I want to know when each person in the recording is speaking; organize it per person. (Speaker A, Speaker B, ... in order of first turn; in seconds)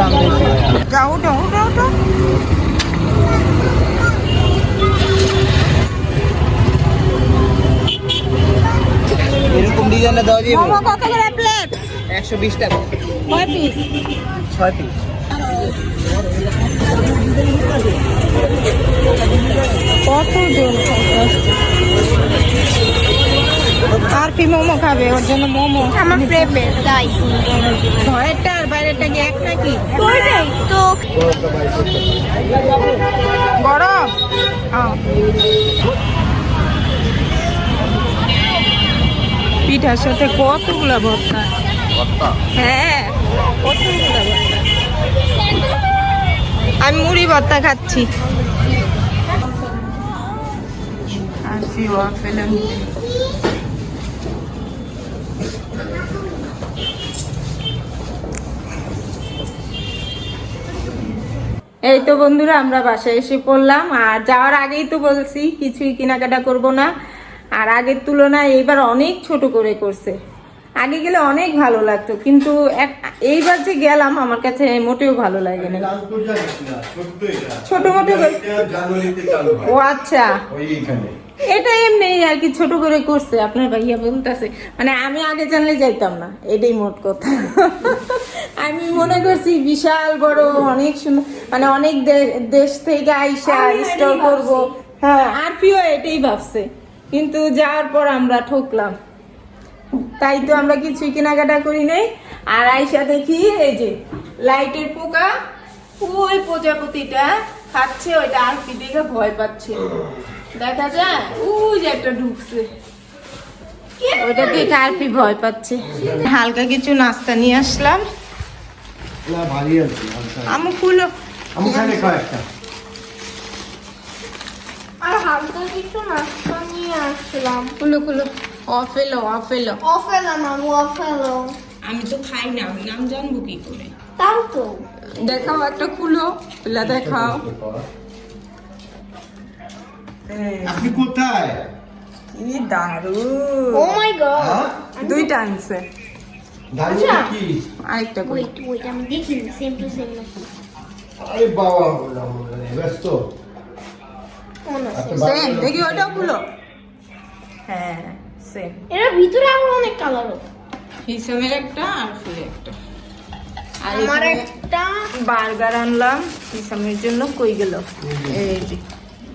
Speaker A: 0.8-1.9, 10.3-11.8, 13.3-13.8, 20.1-21.5, 24.1-26.5, 28.0-29.9, 33.6-34.1, 34.7-35.0, 39.7-41.5, 42.5-44.6, 46.8-48.1, 51.3-53.0, 61.9-66.9, 67.6-70.2, 70.8-75.9, 77.7-78.6, 79.5-80.3, 81.5-99.0, 100.2-105.3, 106.0-109.9, 110.5-112.7, 114.2-118.0, 120.5-122.2, 127.8-129.8, 131.8-133.9, 135.2-137.4, 140.3-141.0, 142.3-144.0, 145.0-145.8, 146.9-147.3, 147.8-148.5, 155.2-156.4, 157.7-158.8, 161.1-162.8, 163.8-164.4, 165.2-168.8
Speaker B: 9.8-10.1, 75.7-79.8, 80.5-81.2, 119.2-120.7, 121.5-122.5, 136.8-137.8, 140.7-141.7, 144.3-144.8, 146.7-147.6, 151.2-153.3, 154.9-156.3, 168.0-168.4
Speaker C: 25.9-27.4, 29.9-31.0, 93.5-94.7, 114.0-115.1, 125.0-127.8, 129.8-131.6, 134.2-134.9, 143.7-145.3, 148.2-150.5, 154.7-155.3, 158.9-160.4, 163.9-165.1